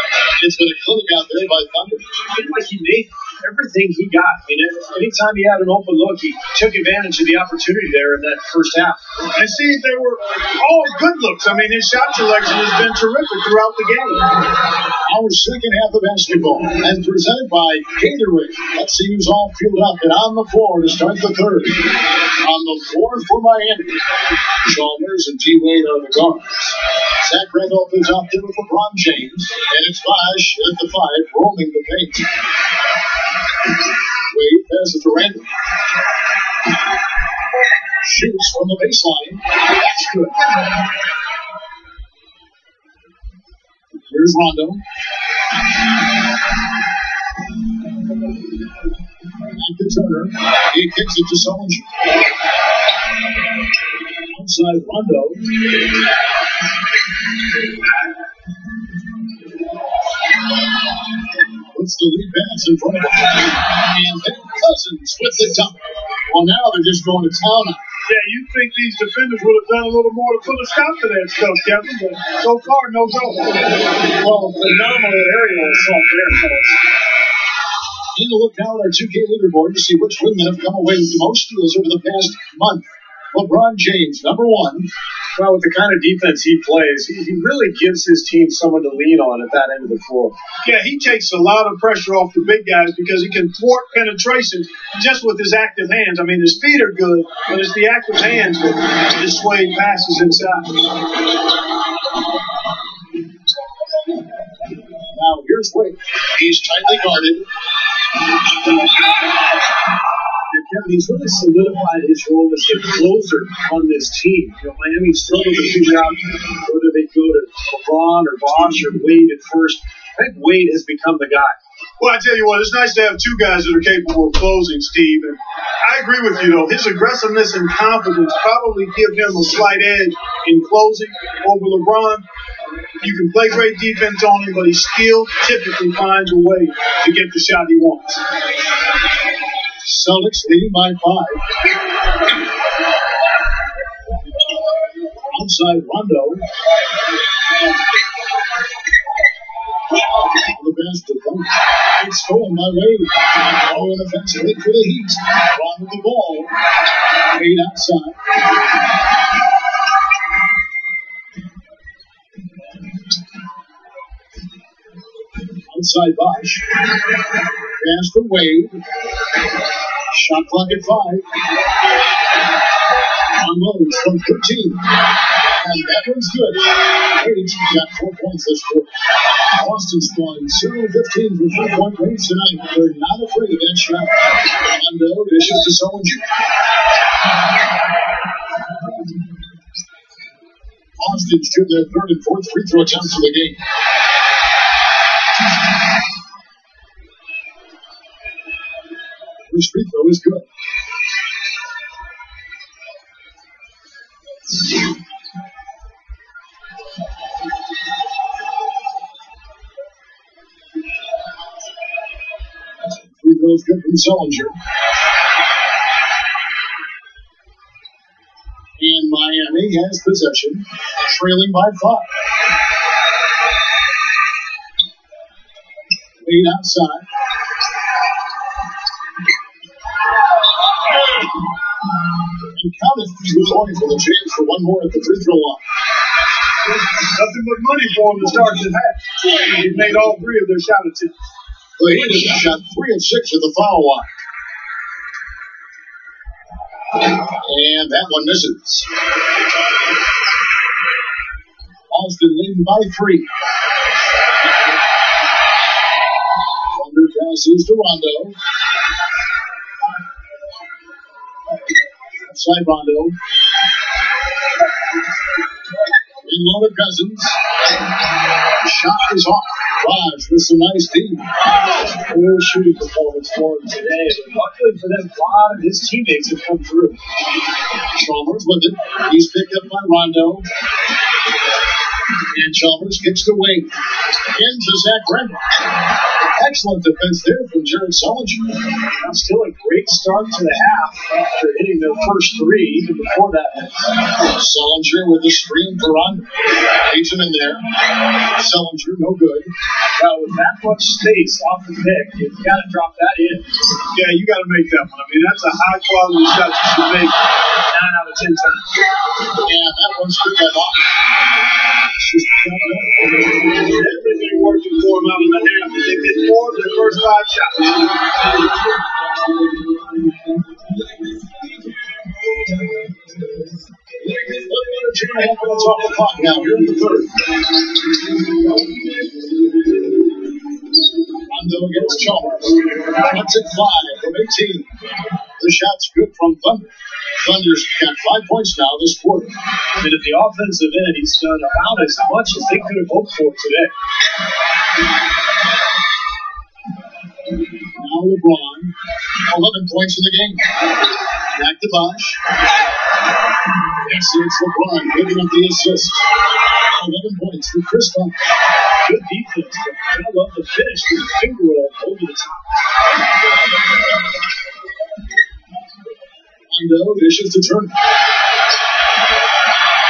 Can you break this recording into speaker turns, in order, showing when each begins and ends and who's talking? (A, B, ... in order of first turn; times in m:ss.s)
0:00.4-0:02.2 A
0:02.3-0:09.0 B
0:09.3-0:14.4 C
0:15.0-0:32.4 A
0:34.2-0:35.5 A
0:38.0-0:40.7 A
0:44.1-0:44.8 A
0:49.4-0:52.0 A
0:54.3-0:55.9 A
1:01.7-1:07.8 A
1:08.1-1:13.8 C
1:14.0-1:16.8 B
1:18.1-1:24.9 A
1:25.4-1:30.4 B
1:30.6-1:41.0 C
1:45.1-1:47.5 A
1:50.5-2:01.6 B
2:02.0-2:12.2 C
2:13.0-2:18.2 C
2:19.8-2:21.4 A
2:25.3-2:26.4 A
2:30.2-2:36.5 A
2:37.3-2:38.2 A
2:45.7-2:46.8 A
2:47.8-2:48.8 A
2:50.1-2:51.2 A
2:53.4-2:58.9 A
2:59.5-3:06.2 A
3:11.0-3:13.6 A
3:19.5-3:20.4 A
3:33.1-3:34.5 A
3:38.8-3:42.1 A
3:46.2-3:47.0 A
3:52.4-3:55.6 A
3:56.6-4:01.1 C
4:01.8-4:04.1 A
4:07.1-4:08.9 A
4:11.9-4:13.3 A
4:16.7-4:18.4 A
4:22.2-4:23.1 A
4:26.2-4:27.4 A
4:28.6-4:31.2 A
4:31.8-4:37.0 B
4:37.9-4:40.4 A
4:42.3-4:43.7 A
4:44.2-4:45.6 A
4:46.2-4:48.6 A
4:49.0-4:54.0 B
4:54.2-4:56.3 A
4:56.8-4:59.5 A
5:00.0-5:03.6 B
5:03.8-5:07.2 C
5:07.7-5:08.8 B
5:09.3-5:10.8 A
5:11.8-5:13.6 A
5:13.6-5:18.0 C
5:24.1-5:27.4 A
5:31.3-5:34.7 A
5:35.4-5:39.3 A
5:39.8-5:43.7 B
5:47.7-5:50.4 A
5:51.3-5:52.2 A
5:53.8-5:56.0 A
5:56.7-5:58.1 A
5:58.8-6:02.6 B
6:06.5-6:07.7 A